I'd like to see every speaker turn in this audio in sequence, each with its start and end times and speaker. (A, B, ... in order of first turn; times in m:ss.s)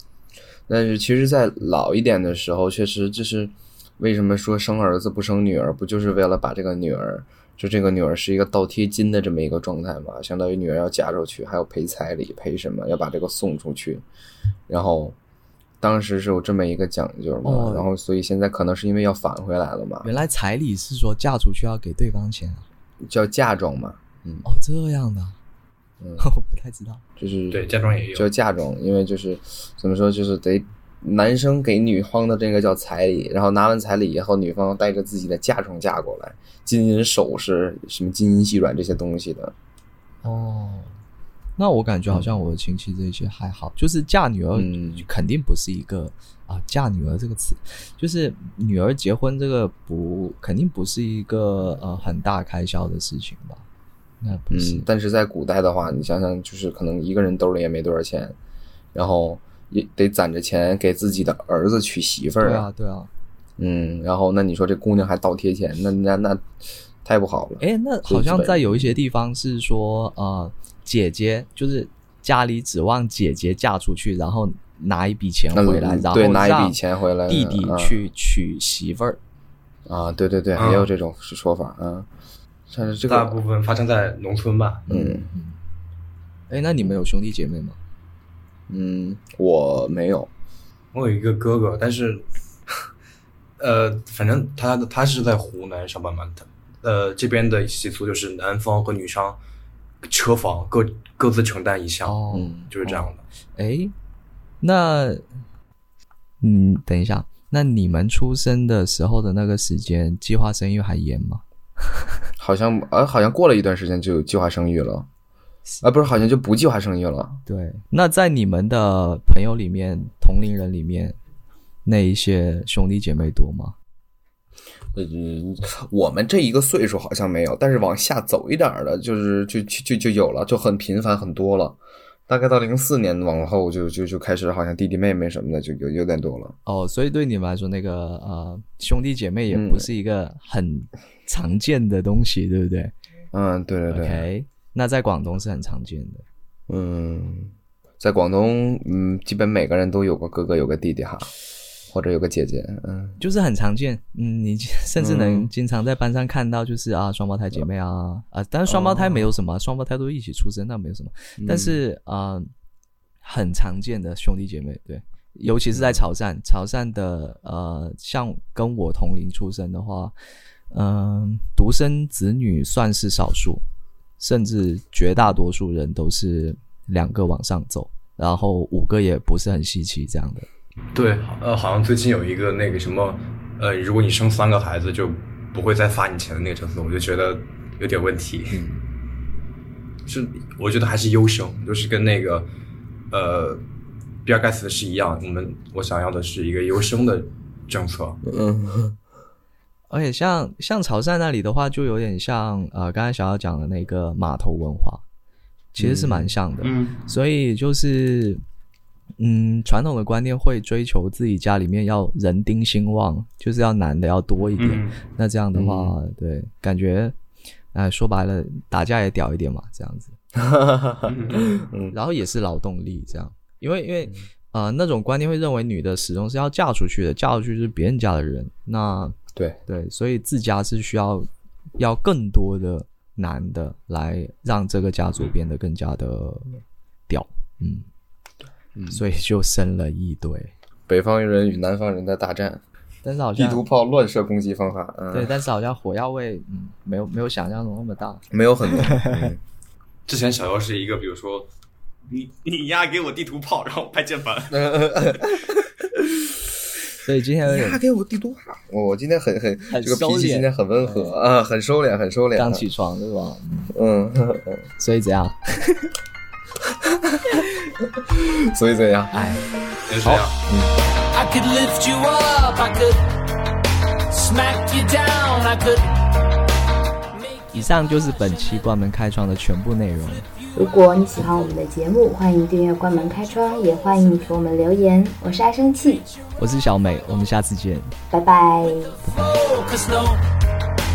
0:00.7-0:14.0 A
0:14.7-0:15.2 A
0:15.8-0:20.1 A
0:17.4-0:17.9 B
0:20.0-0:22.6 B
0:23.0-0:24.4 A
0:24.4-0:25.4 B
0:26.0-0:26.2 A
0:26.2-0:27.0 B
0:27.2-0:39.5 A
0:27.5-0:28.3 C
0:40.2-0:40.9 B
0:41.6-0:53.6 B
0:44.5-0:45.0 A
0:54.2-0:54.8 B
0:54.5-0:58.4 A
0:58.9-1:02.7 A
1:02.4-1:03.1 B
1:03.6-1:06.5 A
1:07.0-1:09.0 A
1:07.6-1:19.2 B
1:15.5-1:18.0 A
1:19.8-1:22.1 A
1:20.6-1:20.9 C
1:22.7-1:23.4 A
1:23.1-1:24.8 C
1:24.9-1:25.3 A
1:24.9-1:25.6 B
1:26.5-1:27.8 B
1:28.7-1:30.3 A
1:30.9-1:32.2 C
1:33.6-1:39.4 C
1:40.0-1:42.2 C
1:42.0-1:42.7 B
1:42.3-1:43.1 A
1:42.7-1:43.2 C
1:43.6-1:43.9 B
1:44.6-1:45.2 B
1:46.4-1:52.1 B
1:52.4-1:55.1 A
1:55.8-1:57.4 A
1:57.5-2:01.2 B
2:01.8-2:03.7 B
2:04.9-2:16.6 A
2:16.6-2:22.9 B
2:19.5-2:19.9 A
2:23.3-2:24.3 A
2:23.9-2:26.2 B
2:26.7-2:31.3 A
2:31.9-2:33.2 A
2:33.2-2:42.5 B
2:35.0-2:35.5 A
2:38.7-2:39.3 A
2:41.4-2:41.8 A
2:43.2-2:50.1 B
2:45.7-2:46.0 A
2:50.7-2:53.6 B
2:54.2-3:00.5 B
3:00.9-3:08.6 C
3:08.5-3:08.8 A
3:10.1-3:12.5 C
3:13.1-3:13.6 C
3:14.2-3:18.2 C
3:18.2-3:19.0 A
3:19.9-3:25.0 B
3:25.7-3:28.4 B
3:25.8-3:26.3 A
3:26.6-3:27.0 C
3:29.2-3:37.1 B
3:34.6-3:35.0 C
3:35.5-3:35.9 A
3:37.7-3:40.1 B
3:40.4-3:41.9 A
3:41.0-3:41.5 C
3:41.9-3:57.8 B
3:58.7-3:59.0 A
3:58.9-4:00.5 B
4:00.9-4:02.6 A
4:03.0-4:03.6 B
4:03.4-4:05.4 A
4:05.1-4:09.3 B
4:08.3-4:09.4 A
4:10.0-4:11.5 C
4:12.1-4:15.6 C
4:14.5-4:16.3 A
4:17.0-4:17.8 B
4:17.4-4:22.6 A
4:19.7-4:21.1 B
4:22.3-4:23.7 B
4:23.7-4:24.6 A
4:24.8-4:25.9 B
4:26.7-4:29.2 A
4:29.1-4:29.5 B
4:29.9-4:30.3 C
4:30.0-4:30.7 B
4:31.1-4:33.1 D
4:34.1-4:35.9 D
4:37.5-4:40.3 B
4:40.6-4:46.0 E
4:46.4-4:47.9 B
4:48.1-4:49.0 E
4:49.0-4:50.2 D